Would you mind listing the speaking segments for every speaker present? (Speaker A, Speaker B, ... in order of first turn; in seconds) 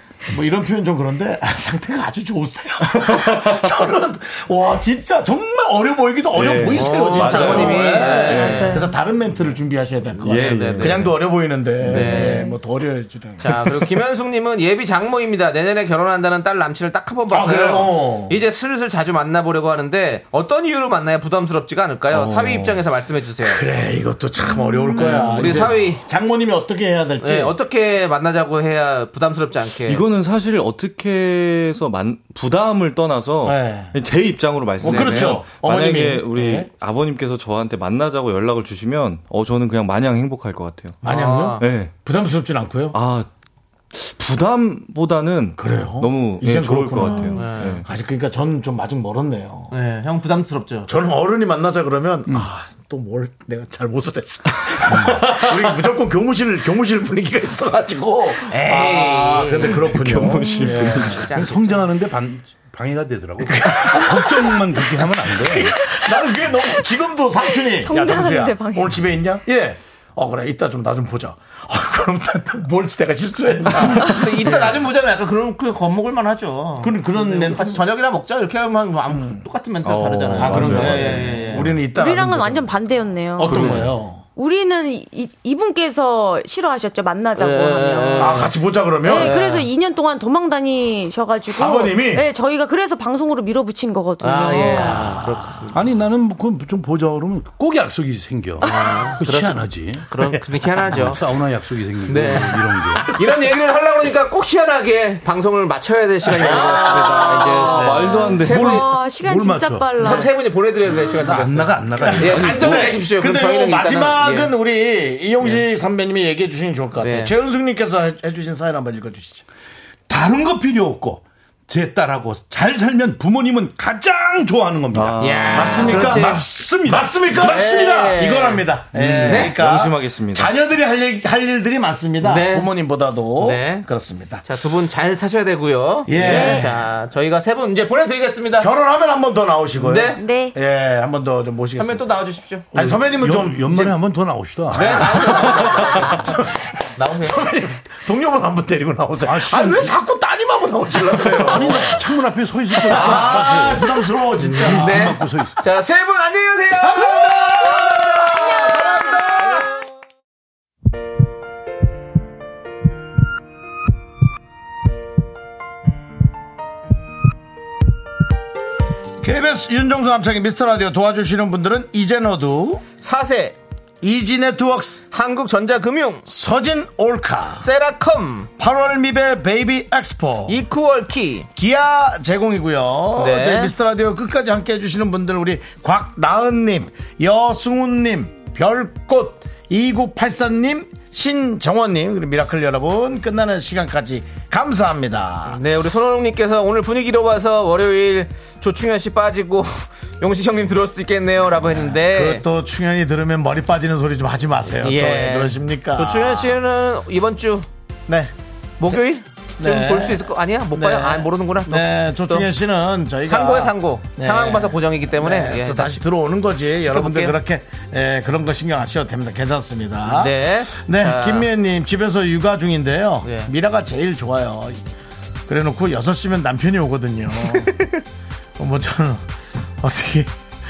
Speaker A: 0.3-13.9, 17.3-18.4, 22.1-22.8, 23.4-27.6, 33.4-34.0, 34.8-36.7, 41.0-43.0, 45.6-49.7, 50.9-61.3, 63.4-74.8, 76.8-77.9, 79.1-79.4, 80.3-84.2, 88.2-89.5, 91.5-92.3, 106.2-108.4, 112.0-119.5, 125.5-134.4, 136.1-136.8, 138.6-142.1, 142.7-144.0, 144.8-152.0, 152.8-155.2, 156.8-159.7, 169.2-172.8, 174.0-175.0, 176.3-177.7, 178.6-180.6, 181.6-195.6, 201.7-206.6, 208.1-208.3, 209.6-224.8, 225.5-227.9, 228.6-229.2, 229.8-230.3
Speaker B: 3.0-3.7, 6.3-8.6, 10.2-11.2, 11.9-12.2, 29.9-41.0, 41.6-42.0, 42.9-43.3, 43.9-47.9, 60.0-61.2, 79.8-81.7, 83.4-84.0, 107.3-108.7, 124.9-126.0, 128.9-130.5
Speaker C: 6.8-8.9, 10.2-11.1, 11.8-12.5, 13.4-23.6, 24.9-26.0, 27.2-30.0, 34.8-35.4, 41.0-41.6, 47.4-47.8, 49.7-50.9, 58.5-59.9, 60.9-61.9, 73.8-81.7, 87.4-88.5, 89.0-89.7, 94.2-95.8, 98.6-101.2, 102.1-108.8, 110.0-114.5, 117.0-117.3, 125.2-126.5, 127.4-128.7, 129.3-129.6, 132.2-132.7, 133.4-133.9, 134.4-138.7, 139.8-140.2, 141.8-142.7, 144.7-146.3, 147.0-147.4, 152.9-153.7, 154.4-158.5, 173.0-173.6, 175.1-176.3, 177.6-178.5, 180.5-181.5, 183.2-183.7, 195.5-202.4, 204.8-207.7, 208.8-212.5, 213.2-216.0, 216.8-217.3, 220.1-221.5, 223.2-223.5
Speaker D: 8.2-8.9, 12.1-12.5, 24.5-25.5, 47.0-47.6, 67.6-69.0, 81.9-83.8, 84.4-88.5, 89.0-95.2, 108.2-110.3, 136.2-136.7, 140.2-140.6
Speaker E: 54.9-55.2, 61.3-65.8, 95.7-100.1, 100.8-103.1, 108.4-110.0, 111.0-113.0, 120.1-127.7, 142.7-145.2, 149.2-150.0, 151.4-155.6